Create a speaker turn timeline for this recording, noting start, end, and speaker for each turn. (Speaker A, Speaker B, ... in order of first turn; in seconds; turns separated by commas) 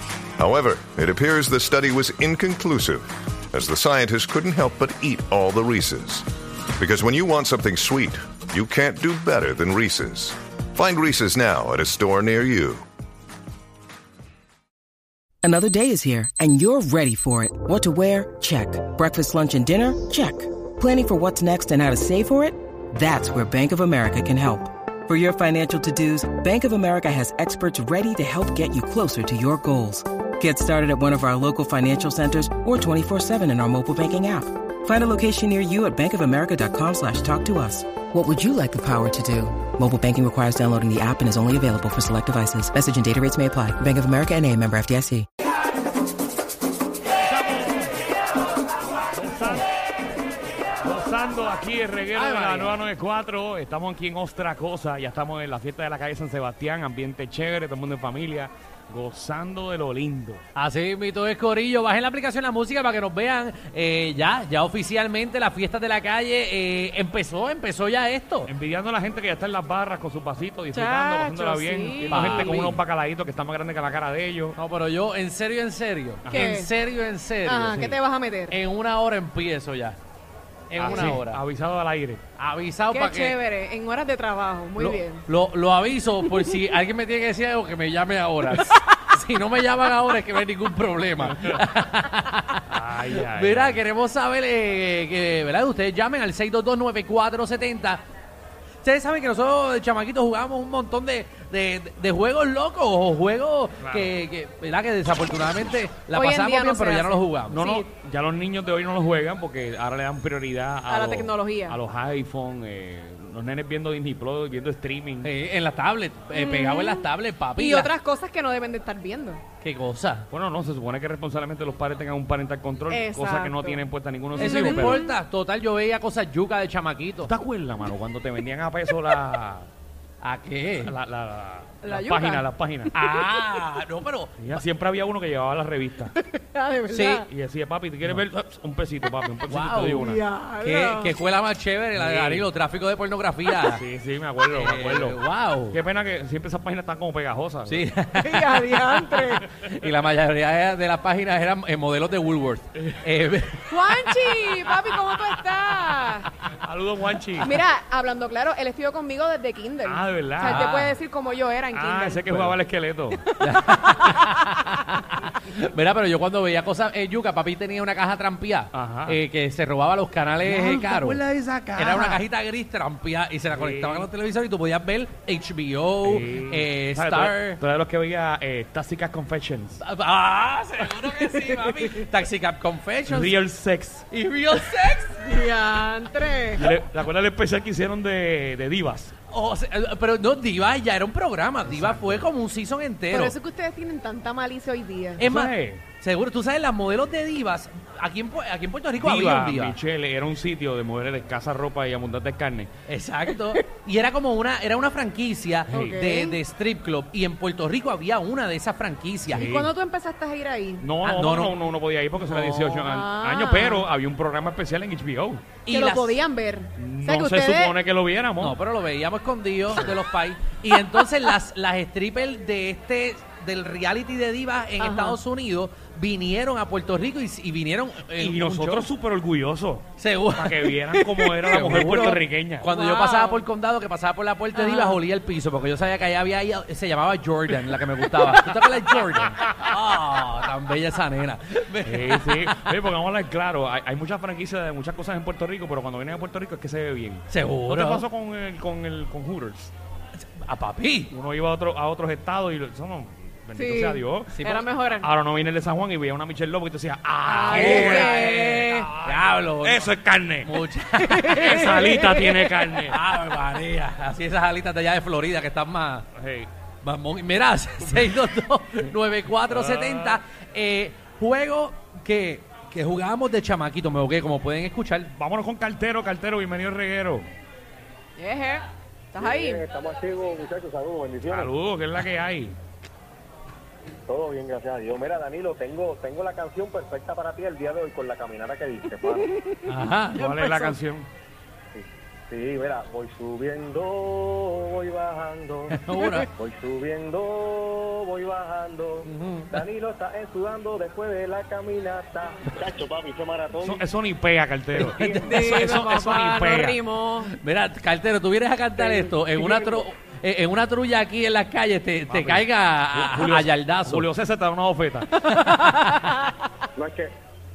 Speaker A: 0.4-6.2, Speaker A: 6.8-12.8, Speaker B: 15.4-45.2, Speaker C: 47.2-47.9, Speaker C: 49.1-49.7, Speaker C: 50.8-60.4, Speaker D: 52.1-52.8, Speaker D: 60.5-68.5, Speaker C: 68.5-74.6, Speaker E: 70.7-72.5, Speaker D: 72.1-72.8, Speaker D: 74.5-80.0, Speaker E: 76.3-76.7, Speaker E: 77.5-78.6, Speaker D: 80.7-81.4, Speaker C: 80.8-82.2, Speaker D: 82.4-83.4, Speaker E: 82.9-85.2, Speaker D: 84.8-98.0, Speaker C: 91.3-91.6, Speaker C: 92.7-93.8, Speaker D: 98.8-107.6, Speaker C: 103.8-104.1, Speaker E: 106.1-107.8, Speaker C: 107.5-115.3, Speaker E: 110.9-111.8, Speaker D: 115.2-117.9, Speaker E: 116.3-117.1, Speaker E: 117.6-119.4, Speaker D: 119.6-120.3, Speaker C: 120.3-125.0, Speaker E: 122.9-123.8, Speaker D: 124.4-127.3, Speaker E: 124.7-125.1, Speaker C: 127.2-129.7, Speaker D: 130.2-130.9, Speaker C: 130.8-132.9, Speaker E: 131.8-132.4, Speaker D: 132.9-134.4, Speaker C: 134.4-136.1, Speaker E: 136.2-137.2, Speaker D: 136.9-137.2, Speaker C: 137.3-140.2, Speaker D: 139.5-140.1, Speaker E: 140.0-141.1, Speaker D: 140.6-143.8, Speaker C: 141.9-142.5, Speaker C: 143.6-145.2, Speaker D: 144.4-145.8, Speaker C: 145.7-147.9, Speaker D: 147.7-153.9, Speaker E: 148.2-149.4, Speaker C: 152.7-153.0, Speaker E: 153.7-156.3, Speaker C: 156.6-157.6, Speaker E: 157.4-162.3, Speaker C: 159.8-160.7, Speaker D: 160.4-160.9, Speaker C: 161.7-163.2, Speaker D: 163.4-171.2, Speaker C: 168.7-169.2, Speaker C: 170.4-172.2, Speaker D: 171.8-177.6, Speaker C: 173.5-174.1, Speaker C: 176.0-179.8, Speaker D: 179.8-183.4, Speaker C: 183.1-184.1, Speaker D: 184.1-185.5, Speaker E: 185.4-186.6, Speaker C: 186.6-189.1, Speaker D: 189.3-193.3, Speaker C: 191.6-192.3, Speaker E: 193.1-195.2, Speaker D: 195.2-199.8, Speaker C: 195.2-195.8, Speaker C: 199.0-202.7, Speaker D: 202.9-209.5, Speaker C: 205.7-206.0, Speaker E: 205.7-206.4, Speaker C: 209.3-209.7, Speaker E: 209.4-210.8, Speaker C: 210.8-215.4, Speaker D: 211.0-211.6, Speaker D: 212.2-212.8, Speaker E: 212.8-213.9, Speaker D: 215.7-216.2, Speaker E: 215.7-217.7, Speaker C: 216.8-218.6, Speaker D: 218.4-228.9, Speaker E: 224.8-225.1, Speaker C: 228.2-232.7, Speaker D: 230.0-242.5, Speaker E: 232.8-233.4, Speaker E: 234.6-235.0, Speaker C: 239.1-239.7, Speaker C: 241.8-249.7, Speaker D: 247.3-248.0, Speaker D: 250.3-251.1, Speaker C: 251.1-260.5, Speaker E: 253.5-255.1, Speaker D: 254.3-254.7, Speaker E: 257.3-258.9, Speaker D: 257.5-261.9, Speaker C: 261.2-263.0, Speaker E: 261.4-262.3, Speaker D: 262.9-266.1, Speaker C: 266.1-266.5, Speaker D: 266.8-275.1, Speaker C: 269.5-270.2, Speaker C: 275.1-277.3, Speaker E: 278.2-278.6, Speaker E: 279.1-279.6, Speaker F: 279.2-281.5, Speaker C: 281.3-282.6, Speaker F: 284.1-289.3, Speaker E: 289.4-289.7, Speaker D: 289.6-290.4, Speaker C: 290.2-291.1, Speaker E: 290.2-290.7, Speaker F: 291.7-295.8, Speaker D: 295.7-296.3, Speaker F: 296.3-303.8, Speaker D: 299.1-299.5, Speaker C: 303.6-306.8, Speaker D: 304.8-305.7, Speaker E: 305.3-307.3, Speaker D: 307.2-314.1, Speaker C: 312.1-315.1, Speaker D: 315.2-316.1, Speaker F: 316.8-317.1